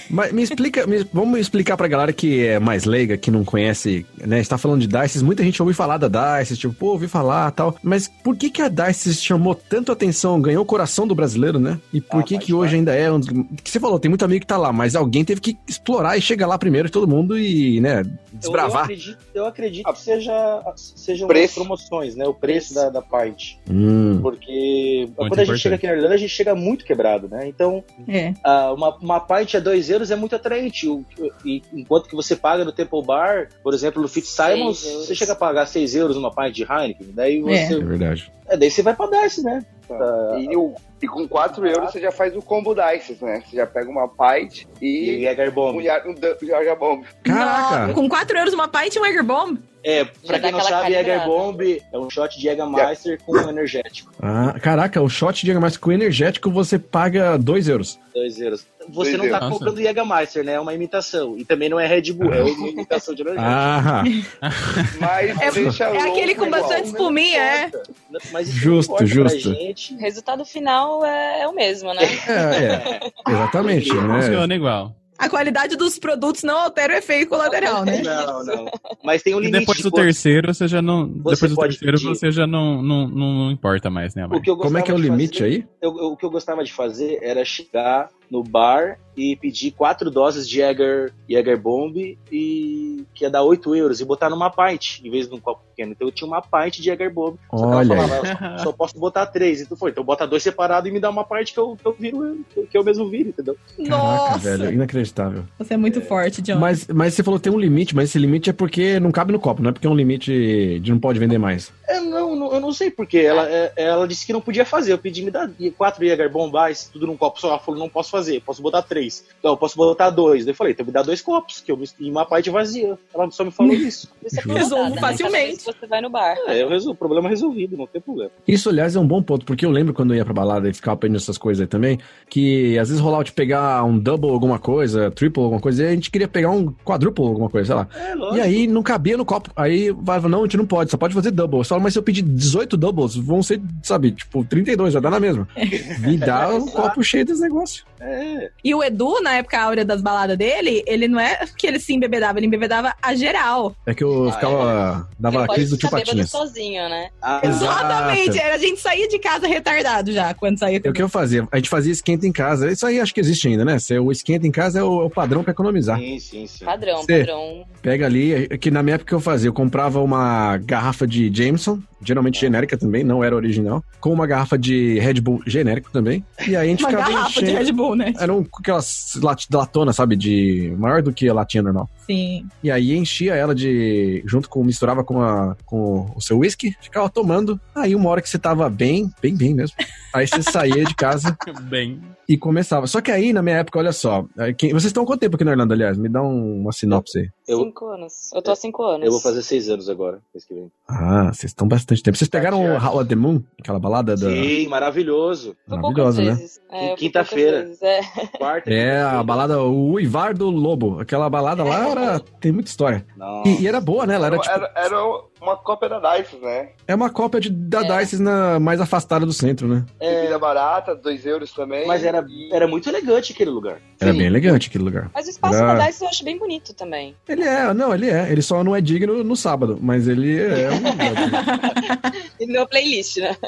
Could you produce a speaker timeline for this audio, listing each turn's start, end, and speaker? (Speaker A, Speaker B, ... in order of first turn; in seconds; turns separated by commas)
Speaker A: 0.1-18.9, Speaker B: 12.1-12.8, Speaker C: 18.4-23.6, Speaker B: 21.3-21.7, Speaker D: 22.5-22.8, Speaker A: 23.7-24.3, Speaker C: 24.2-37.9, Speaker E: 25.2-25.8, Speaker F: 28.1-28.4, Speaker D: 34.3-35.3, Speaker F: 37.5-37.8, Speaker A: 37.8-38.3, Speaker C: 38.5-40.6, Speaker B: 39.9-47.2, Speaker C: 41.5-41.9, Speaker C: 45.0-45.9, Speaker F: 47.2-49.6, Speaker A: 47.3-48.0, Speaker C: 49.8-54.2, Speaker D: 50.3-51.5, Speaker B: 52.7-53.4, Speaker A: 54.2-58.0, Speaker C: 58.1-63.7, Speaker B: 59.0-59.4, Speaker E: 59.4-59.8, Speaker A: 63.4-64.1, Speaker E: 64.4-65.0, Speaker B: 64.9-67.0, Speaker C: 65.3-65.7, Speaker F: 65.4-67.7, Speaker C: 66.3-70.0, Speaker A: 68.5-69.6, Speaker D: 70.0-72.8, Speaker C: 72.0-73.1, Speaker A: 72.3-74.5, Speaker C: 73.6-74.2, Speaker E: 74.0-75.0, Speaker F: 75.2-78.1, Speaker D: 77.5-78.8, Speaker C: 77.9-80.2, Speaker E: 79.4-84.5, Speaker C: 81.2-82.2, Speaker C: 84.3-103.7, Speaker A: 84.6-85.7, Speaker A: 97.5-98.2, Speaker F: 98.2-98.6, Speaker F: 103.8-104.7, Speaker A: 103.8-105.5, Speaker F: 105.6-106.8, Speaker C: 105.8-106.2, Speaker A: 106.5-111.7, Speaker C: 111.9-124.1, Speaker D: 124.2-126.6, Speaker A: 124.3-125.2, Speaker F: 124.5-125.7, Speaker C: 126.4-128.3, Speaker A: 128.5-147.8, Speaker C: 137.9-138.7, Speaker C: 145.7-147.0, Speaker C: 148.0-148.5, Speaker F: 148.6-153.8, Speaker A: 153.9-156.4, Speaker C: 154.2-154.8, Speaker D: 155.3-157.1, Speaker C: 155.4-155.9, Speaker C: 157.2-157.8, Speaker F: 157.4-161.1, Speaker A: 157.4-158.4, Speaker A: 160.8-166.0, Speaker C: 165.9-166.8, Speaker D: 166.7-167.7, Speaker A: 167.0-167.3, Speaker A: 167.8-181.9, Speaker C: 172.3-172.6, Speaker F: 176.8-178.3, Speaker F: 182.0-182.5, Speaker A: 182.6-191.4, Speaker E: 191.4-192.2, Speaker A: 192.3-197.3, Speaker C: 196.9-197.7, Speaker D: 197.5-199.3, Speaker C: 198.4-200.7, Speaker A: 200.9-204.5, Speaker C: 202.3-202.9, Speaker C: 204.2-205.6, Speaker A: 205.7-206.4, Speaker D: 205.7-208.4, Speaker C: 206.8-207.7, Speaker C: 208.4-209.4, Speaker A: 208.7-214.9, Speaker D: 211.6-212.2, Speaker C: 213.2-213.9, Speaker B: 214.2-216.7, Speaker A: 216.9-219.9, Speaker D: 217.8-218.1, Speaker C: 220.0-220.4, Speaker B: 220.1-222.7, Speaker C: 221.8-224.0, Speaker A: 224.0-225.9, Speaker B: 224.0-224.4, Speaker D: 225.1-227.2, Speaker A: 227.3-231.4, Speaker D: 231.0-233.4, Speaker F: 231.2-232.1